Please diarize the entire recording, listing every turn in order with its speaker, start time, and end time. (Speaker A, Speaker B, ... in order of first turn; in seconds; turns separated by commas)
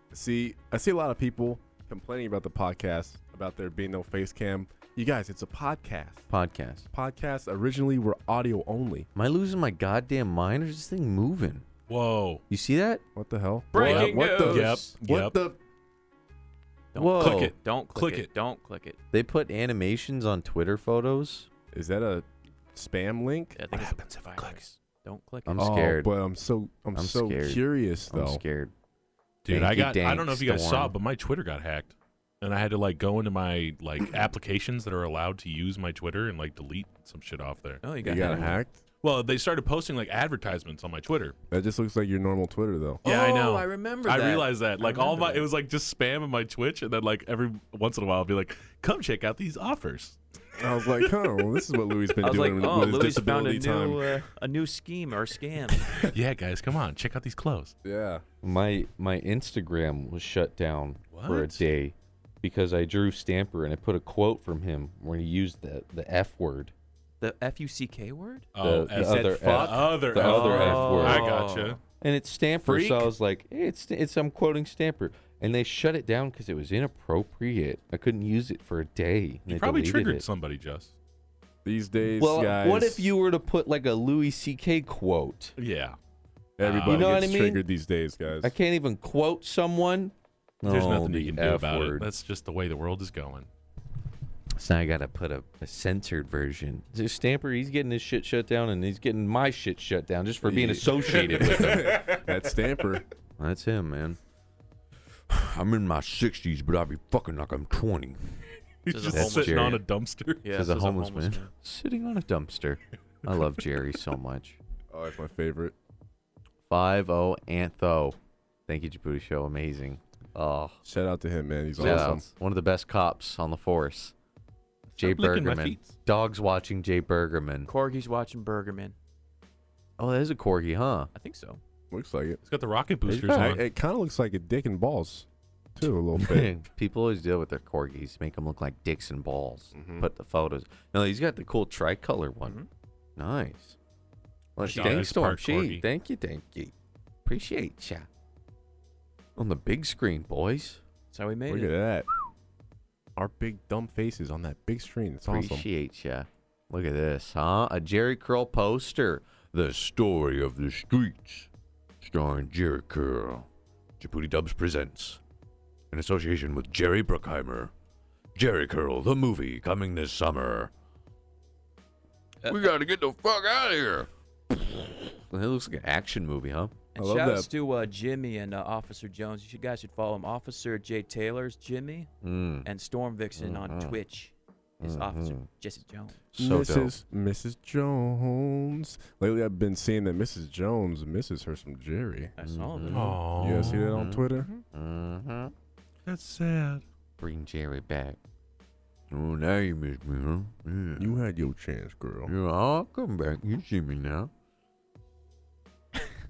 Speaker A: 0.1-6.3, Speaker B: 6.3-6.9, Speaker A: 6.9-9.1, Speaker B: 9.1-11.7, Speaker C: 11.9-12.4, Speaker B: 12.5-13.0, Speaker A: 13.2-15.6, Speaker D: 13.7-14.9, Speaker C: 13.7-15.4, Speaker D: 16.9-19.0, Speaker B: 16.9-17.5, Speaker C: 17.2-18.3, Speaker B: 19.1-21.5, Speaker A: 21.7-23.6, Speaker D: 23.5-25.6, Speaker C: 23.7-24.6, Speaker B: 25.4-26.1, Speaker A: 25.6-28.4, Speaker B: 26.9-28.7, Speaker C: 29.4-37.8, Speaker B: 29.5-30.9, Speaker D: 37.8-38.5, Speaker A: 38.0-38.8, Speaker B: 38.2-38.5, Speaker C: 39.0-41.3, Speaker A: 41.5-43.0, Speaker D: 43.0-45.5, Speaker C: 43.0-50.2, Speaker A: 50.5-54.2, Speaker D: 52.2-55.9, Speaker C: 55.9-57.7, Speaker A: 57.8-58.2, Speaker B: 58.4-66.7, Speaker C: 61.1-61.6, Speaker D: 67.2-68.5, Speaker C: 68.5-71.8, Speaker B: 68.6-71.3, Speaker A: 68.9-69.6, Speaker D: 70.2-71.8, Speaker B: 72.0-80.2, Speaker A: 72.6-73.1, Speaker C: 79.5-80.9, Speaker A: 81.6-83.1, Speaker B: 82.2-85.5, Speaker C: 85.6-86.0, Speaker A: 86.6-88.5, Speaker C: 86.6-87.2, Speaker B: 86.8-87.6, Speaker B: 88.4-92.1, Speaker C: 90.6-93.5, Speaker B: 94.5-102.2, Speaker A: 100.4-103.0, Speaker C: 101.0-102.2, Speaker B: 103.4-104.2, Speaker B: 105.3-108.4, Speaker C: 108.8-110.5, Speaker D: 108.9-109.8, Speaker B: 109.1-109.8, Speaker D: 110.4-111.5, Speaker B: 110.5-114.6, Speaker A: 114.9-115.7, Speaker B: 116.7-120.8, Speaker A: 120.8-122.3, Speaker B: 121.8-124.1, Speaker C: 124.9-126.0, Speaker B: 125.0-127.7, Speaker D: 127.7-128.9, Speaker B: 130.0-131.1, Speaker D: 131.1-131.6, Speaker A: 131.9-132.4, Speaker C: 132.4-133.6, Speaker A: 133.1-136.5, Speaker B: 136.1-142.6, Speaker A: 139.7-140.1, Speaker B: 143.2-143.8, Speaker B: 144.6-146.7, Speaker C: 144.6-145.8, Speaker D: 144.7-145.0, Speaker B: 147.2-148.1, Speaker B: 149.3-150.8, Speaker D: 151.1-151.7, Speaker A: 151.5-152.1, Speaker A: 153.2-155.7, Speaker B: 155.3-161.5, Speaker B: 162.0-163.5, Speaker B: 164.0-165.2, Speaker B: 165.9-167.7, Speaker B: 168.3-170.7, Speaker B: 172.4-176.7, Speaker D: 176.9-182.1, Speaker A: 176.9-177.5, Speaker B: 182.2-182.7, Speaker D: 182.6-186.2, Speaker B: 183.4-184.0, Speaker B: 184.8-185.5, Speaker B: 186.3-186.9, Speaker A: 186.3-192.3, Speaker D: 192.4-193.2, Speaker B: 192.4-195.5, Speaker C: 192.9-194.0, Speaker A: 193.3-194.5, Speaker C: 196.1-196.8, Speaker B: 197.2-198.2, Speaker B: 199.1-201.1, Speaker A: 201.0-202.3, Speaker B: 202.2-204.3